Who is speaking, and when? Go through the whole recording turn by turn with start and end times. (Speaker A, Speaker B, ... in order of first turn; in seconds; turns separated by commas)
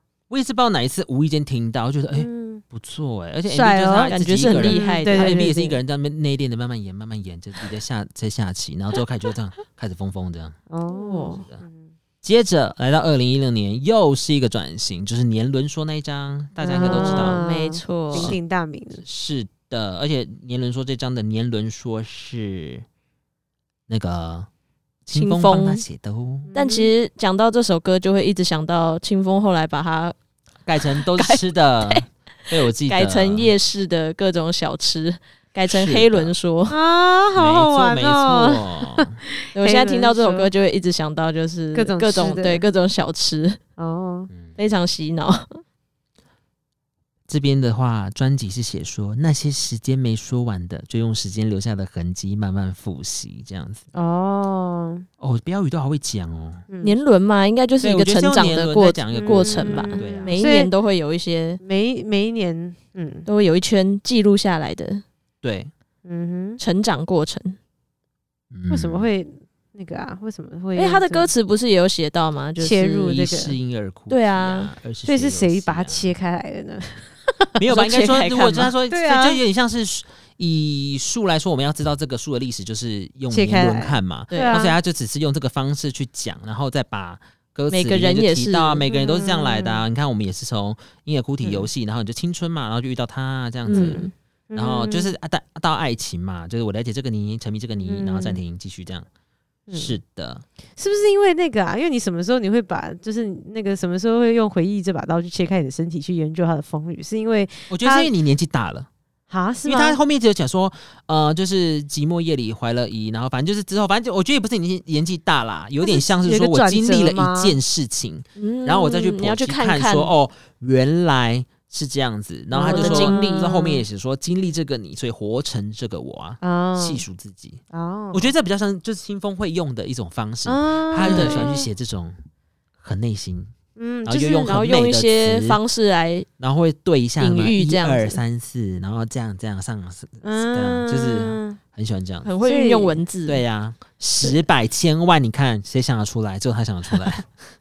Speaker A: 0.3-10.6, Speaker B: 2.1-2.6, Speaker B: 3.5-5.8, Speaker C: 4.1-5.5, Speaker B: 10.7-11.8, Speaker C: 10.9-11.4, Speaker A: 12.2-17.4, Speaker B: 16.6-19.0, Speaker C: 16.8-18.4, Speaker A: 18.1-18.4, Speaker A: 19.0-22.9, Speaker A: 23.9-24.5, Speaker A: 25.1-26.5, Speaker C: 25.1-25.8, Speaker B: 26.5-26.9, Speaker C: 26.5-30.1, Speaker A: 30.6-33.5, Speaker C: 30.9-36.8, Speaker A: 35.7-36.3, Speaker B: 36.7-40.5, Speaker A: 37.3-39.2, Speaker C: 39.5-43.6, Speaker B: 41.7-42.6, Speaker B: 43.8-44.3, Speaker A: 44.3-44.6, Speaker C: 44.6-45.6, Speaker A: 47.3-53.8, Speaker B: 53.9-55.0, Speaker A: 55.2-56.6, Speaker B: 56.7-57.0, Speaker C: 56.8-61.6, Speaker A: 57.8-60.5, Speaker B: 59.1-60.7, Speaker B: 61.6-63.3, Speaker C: 63.3-65.0, Speaker A: 65.4-65.7, Speaker B: 66.0-66.6, Speaker C: 66.6-67.6, Speaker A: 68.5-69.1, Speaker B: 68.7-71.3, Speaker C: 70.7-73.2, Speaker B: 72.6-73.5, Speaker A: 73.0-76.1, Speaker C: 74.1-74.7, Speaker B: 75.0-77.6, Speaker A: 77.6-99.1, Speaker C: 77.7-78.7, Speaker B: 78.9-79.4, Speaker B: 83.3-84.7, Speaker C: 84.3-84.6, Speaker C: 87.7-88.8, Speaker B: 88.9-89.8, Speaker B: 93.7-95.1, Speaker C: 93.7-94.1, Speaker B: 97.8-98.4, Speaker B: 99.7-100.0, Speaker A: 99.7-100.4, Speaker B: 100.8-108.1, Speaker A: 107.7-108.9, Speaker B: 109.3-110.0, Speaker A: 109.7-127.6, Speaker B: 115.8-117.6, Speaker C: 118.4-120.1, Speaker B: 122.5-123.6, Speaker C: 122.7-123.8, Speaker B: 126.4-127.0, Speaker B: 127.7-128.3, Speaker A: 128.1-132.2, Speaker B: 130.4-131.7, Speaker C: 131.0-131.5, Speaker A: 132.8-133.5, Speaker B: 133.8-134.5, Speaker A: 134.0-135.6, Speaker C: 134.4-136.3, Speaker A: 136.4-142.3, Speaker C: 137.2-138.2, Speaker B: 140.2-141.6, Speaker C: 142.2-143.4, Speaker B: 142.4-143.0, Speaker A: 143.2-147.3